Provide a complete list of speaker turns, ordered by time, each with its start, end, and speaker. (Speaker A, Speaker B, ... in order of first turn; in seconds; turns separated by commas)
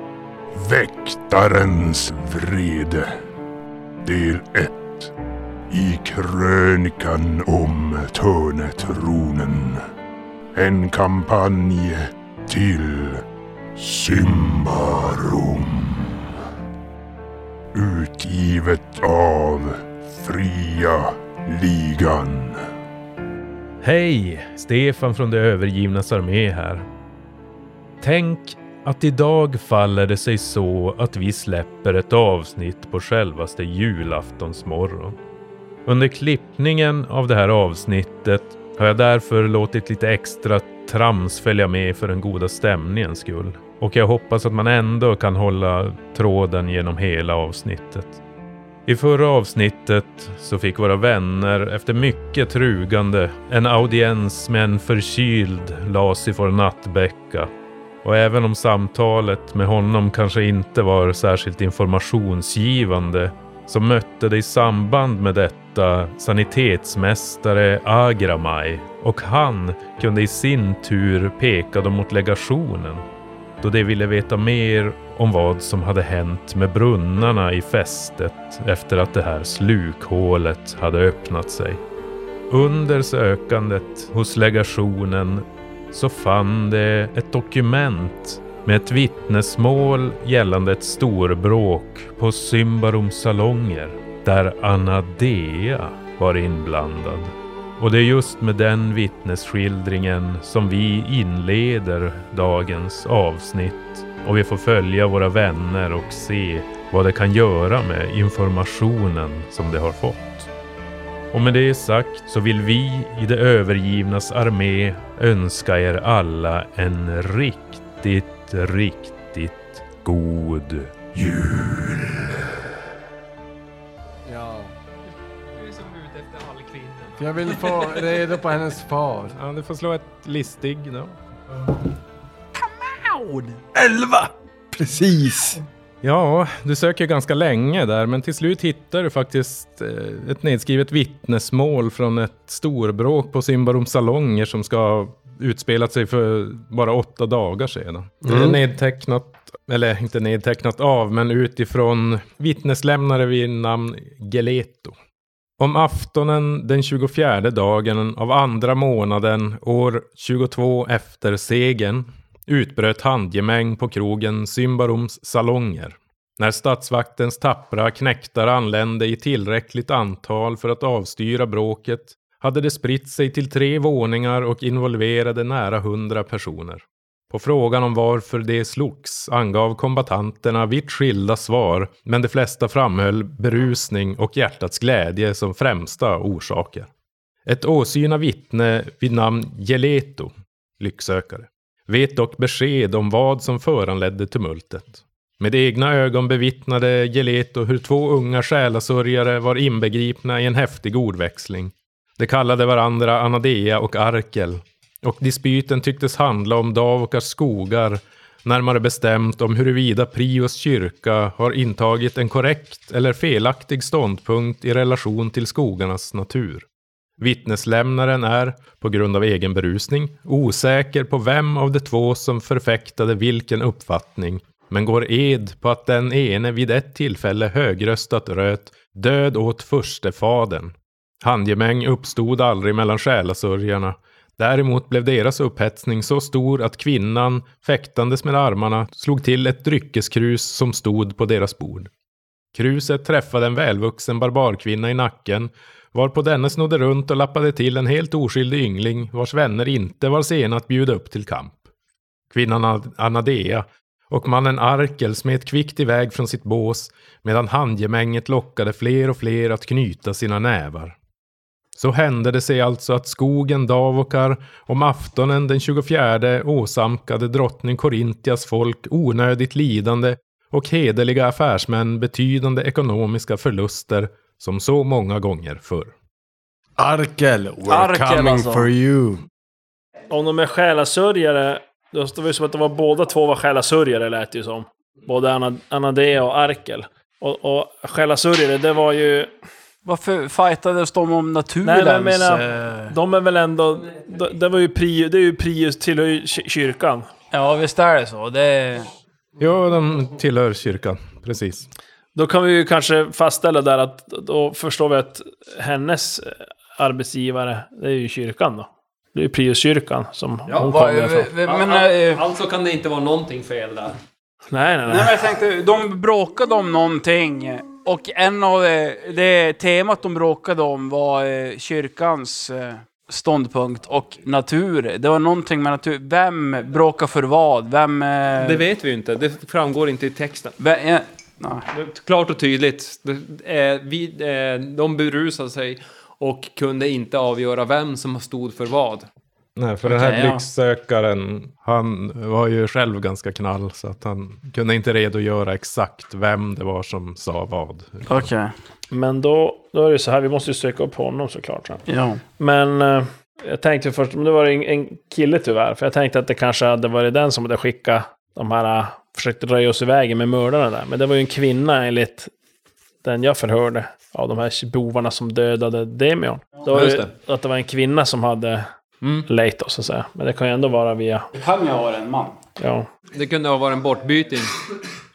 Speaker A: 0.5-3.1, Speaker A: 4.0-5.1, Speaker A: 5.7-9.8, Speaker A: 10.6-13.2, Speaker A: 13.8-16.2, Speaker A: 17.7-22.6, Speaker B: 23.8-26.9, Speaker B: 28.0-35.2, Speaker B: 35.9-48.2, Speaker B: 48.9-57.5, Speaker B: 58.0-73.0, Speaker B: 73.6-81.8, Speaker B: 82.5-110.5, Speaker B: 111.3-121.0, Speaker A: 121.2-122.4, Speaker C: 124.2-124.7, Speaker D: 125.6-127.2, Speaker C: 127.2-129.3, Speaker B: 129.3-131.2, Speaker E: 132.8-133.6, Speaker C: 133.8-135.6, Speaker B: 136.0-155.0, Speaker C: 148.2-148.6, Speaker B: 155.6-186.9, Speaker B: 187.5-216.7, Speaker B: 217.2-241.9, Speaker B: 242.5-251.6, Speaker B: 252.3-261.0, Speaker B: 261.8-275.9, Speaker C: 276.8-279.2, Speaker E: 277.7-278.7, Speaker F: 280.1-289.3, Speaker E: 289.9-292.9, Speaker F: 291.6-297.1, Speaker E: 297.3-298.9, Speaker B: 299.4-301.7, Speaker F: 302.1-311.3, Speaker D: 310.5-310.8, Speaker E: 310.6-312.2, Speaker D: 311.4-314.0, Speaker F: 314.5-315.2, Speaker E: 314.9-328.6, Speaker D: 328.4-330.6, Speaker E: 330.6-331.7, Speaker D: 331.7-339.1, Speaker B: 339.6-348.3, Speaker E: 339.9-340.4, Speaker E: 348.1-348.5, Speaker F: 348.9-351.8, Speaker E: 351.9-352.2, Speaker F: 352.4-362.3, Speaker F: 363.0-368.7, Speaker D: 366.7-367.1, Speaker F: 369.3-371.3, Speaker E: 371.4-372.4, Speaker F: 372.6-372.9, Speaker D: 373.1-374.6